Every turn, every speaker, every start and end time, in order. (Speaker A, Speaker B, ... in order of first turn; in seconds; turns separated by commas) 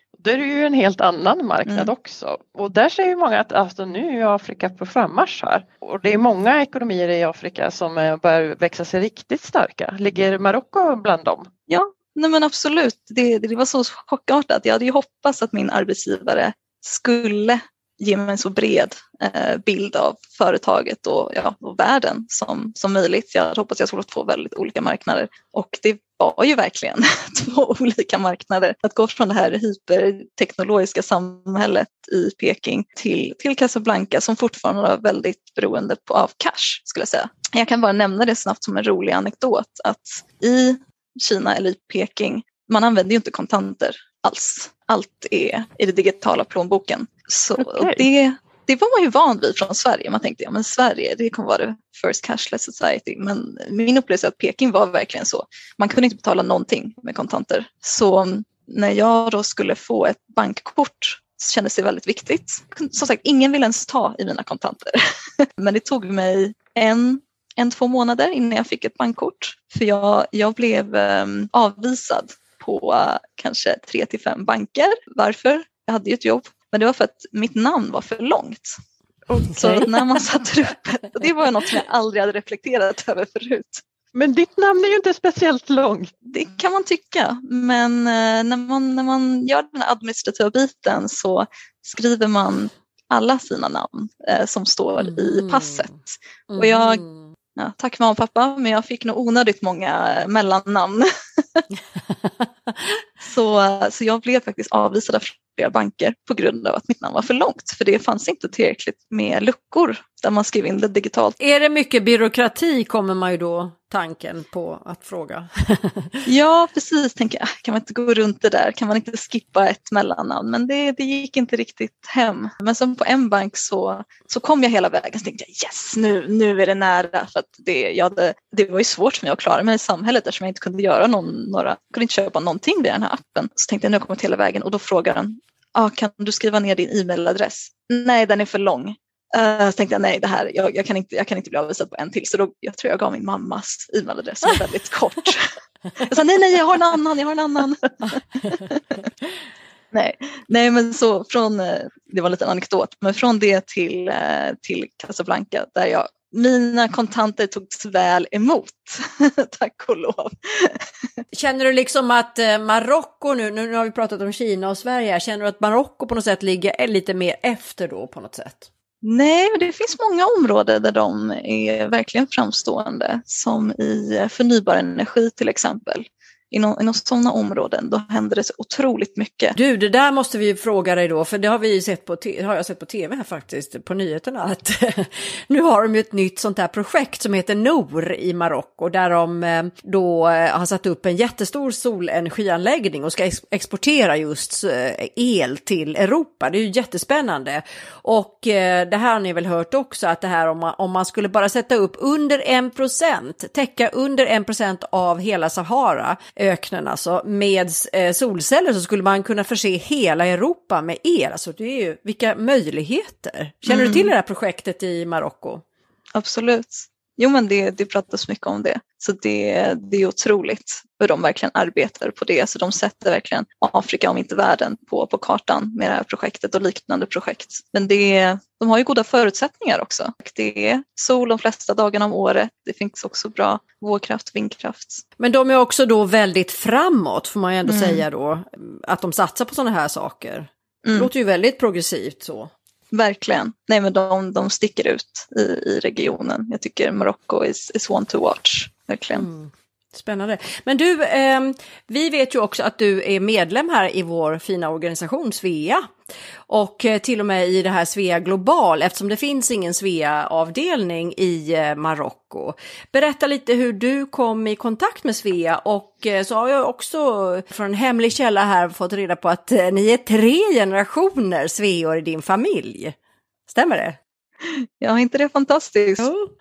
Speaker A: 0.2-11.5, Speaker B: 1.7-1.9, Speaker B: 11.7-78.8, Speaker A: 47.6-48.0, Speaker A: 79.3-79.9, Speaker B: 79.5-83.8, Speaker A: 84.1-86.1, Speaker B: 86.2-97.0, Speaker C: 95.0-95.9, Speaker C: 96.5-97.3, Speaker B: 97.6-101.6, Speaker B: 103.2-111.4, Speaker C: 111.4-116.2, Speaker B: 116.3-149.0, Speaker B: 149.9-160.8, Speaker C: 161.3-168.7, Speaker B: 169.0-179.6, Speaker C: 179.6-215.6, Speaker B: 213.7-214.1, Speaker B: 216.1-235.0, Speaker C: 235.2-242.5, Speaker B: 237.7-238.0, Speaker B: 240.8-241.1, Speaker B: 242.9-249.3, Speaker C: 249.1-255.9, Speaker C: 256.5-272.9, Speaker C: 273.5-274.0, Speaker B: 274.4-276.1, Speaker C: 276.0-276.3